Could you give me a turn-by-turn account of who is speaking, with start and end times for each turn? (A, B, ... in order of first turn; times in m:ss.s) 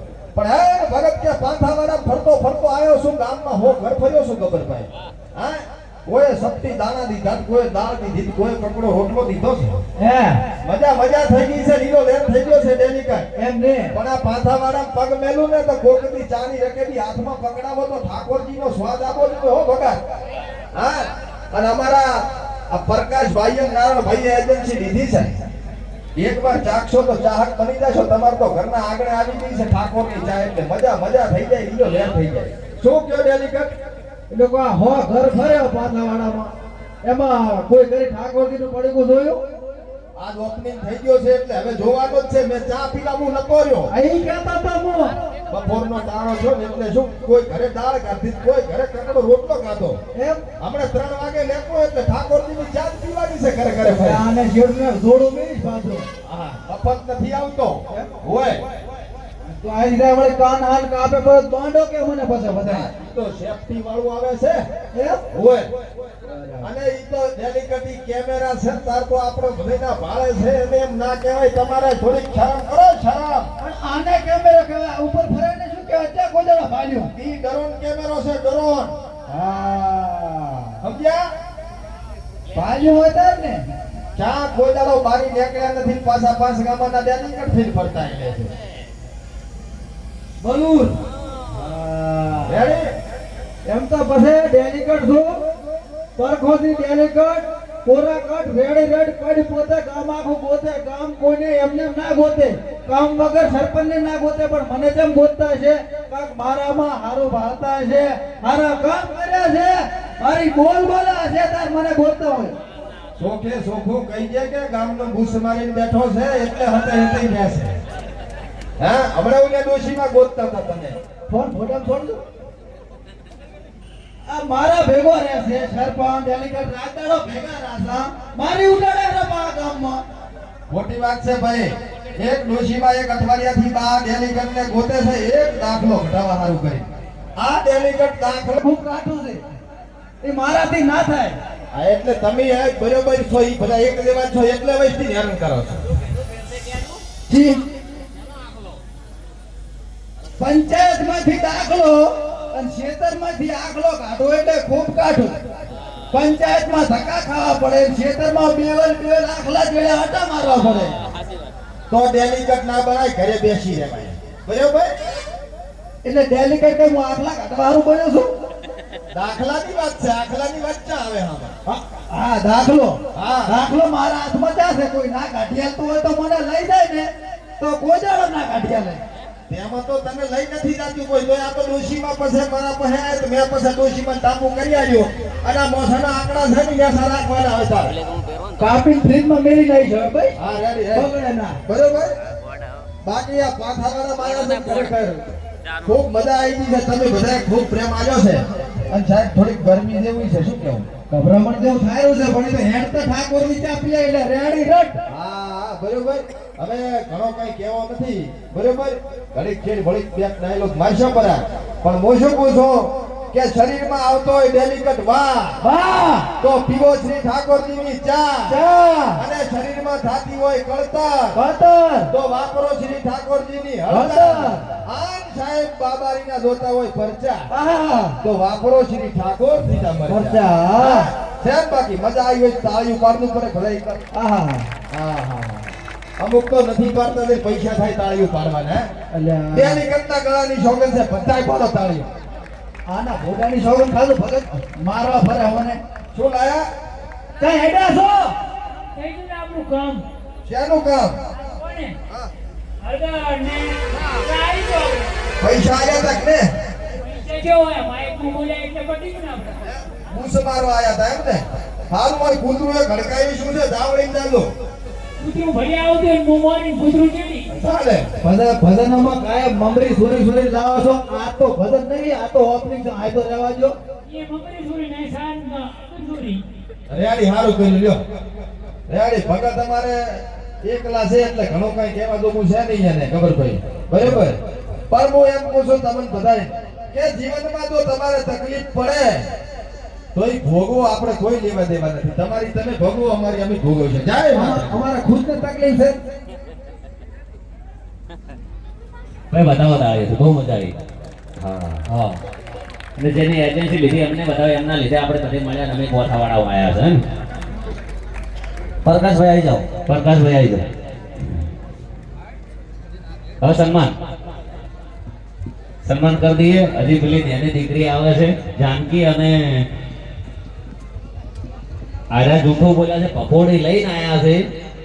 0:00.3-0:09.8 A
0:10.0-0:10.4 B
0:10.6-0:13.3 A
0:13.4-0:13.9 B
0:13.9-0:20.0 A
0:20.7-0:25.3 A
0:26.2-0:33.7 A
0:34.3-0:36.5 B
0:37.0-0:39.4 B
0:40.2-0:43.9 A
0:43.9-0:45.2 B
0:45.5-0:50.0 A
0:50.2-0:50.4 B
0:50.6-0:54.2 A
0:53.9-0:56.1 B
0:56.2-0:58.6 A
0:59.5-1:02.9 B
1:02.6-1:04.6 A
1:04.9-1:05.2 B
1:05.3-1:05.7 A
1:06.3-1:06.7 B
1:06.6-1:13.5 A
1:13.6-1:17.1 B
1:17.1-1:18.9 A
1:19.3-1:20.8 B
1:20.8-1:21.3 A
1:22.5-1:23.7 B
1:24.2-1:28.5 A
1:30.4-1:31.0 B
1:31.5-1:32.7 B
1:32.4-1:32.9 A
1:33.7-1:35.4 B
1:36.2-1:52.6 B
1:53.2-1:57.8 A
1:58.8-2:01.0 A
2:01.3-2:02.2 B
2:04.3-2:10.0 B
2:10.7-2:18.6 A
2:18.6-2:19.5 B
2:20.2-2:21.4 B
2:21.7-2:25.8 A
2:27.3-2:27.6 B
2:30.4-2:35.4 B
2:36.1-2:41.1 B
2:41.9-2:44.9 A
2:46.0-2:48.4 B
2:49.1-2:51.5 A
2:51.6-2:59.0 B
2:53.1-2:53.6 A
2:59.5-3:08.0 A
3:08.6-3:10.4 B
3:10.4-3:11.1 A
3:10.9-3:11.6 B
3:11.7-3:12.1 A
3:13.0-3:15.3 A
3:14.4-3:14.8 C
3:15.8-3:20.9 A
3:21.1-3:25.0 B
3:25.1-3:35.6 A
3:35.6-3:36.3 B
3:36.4-3:38.6 A
3:38.5-3:39.2 B
3:39.2-3:41.4 A
3:41.3-3:42.1 B
3:42.1-3:47.5 A
3:43.9-3:44.7 B
3:47.5-3:48.2 B
3:48.2-3:54.0 A
3:50.1-3:51.1 B
3:54.1-3:54.7 B
3:54.9-3:58.9 A
3:59.1-3:59.8 B
3:59.5-4:02.1 A
4:02.9-4:05.8 B
4:06.1-4:06.7 A
4:07.4-4:08.4 B
4:09.0-4:10.0 D
4:10.4-4:11.2 A
4:11.3-4:12.0 D
4:12.8-4:15.1 D
4:15.4-4:16.5 A
4:17.0-4:19.6 D
4:19.7-4:24.5 A
4:25.2-4:27.5 D
4:27.5-4:28.1 A
4:28.2-4:33.8 B
4:34.1-4:36.4 D
4:36.9-4:38.0 A
4:38.9-4:44.4 A
4:44.9-4:49.3 A
4:50.1-4:54.8 A
4:54.3-4:56.0 B
4:59.3-5:00.7 C
5:01.4-5:02.2 C
5:03.0-5:07.0 C
5:08.8-5:10.6 C
5:13.4-5:13.9 C
5:15.8-5:19.7 C
5:22.1-5:24.4 C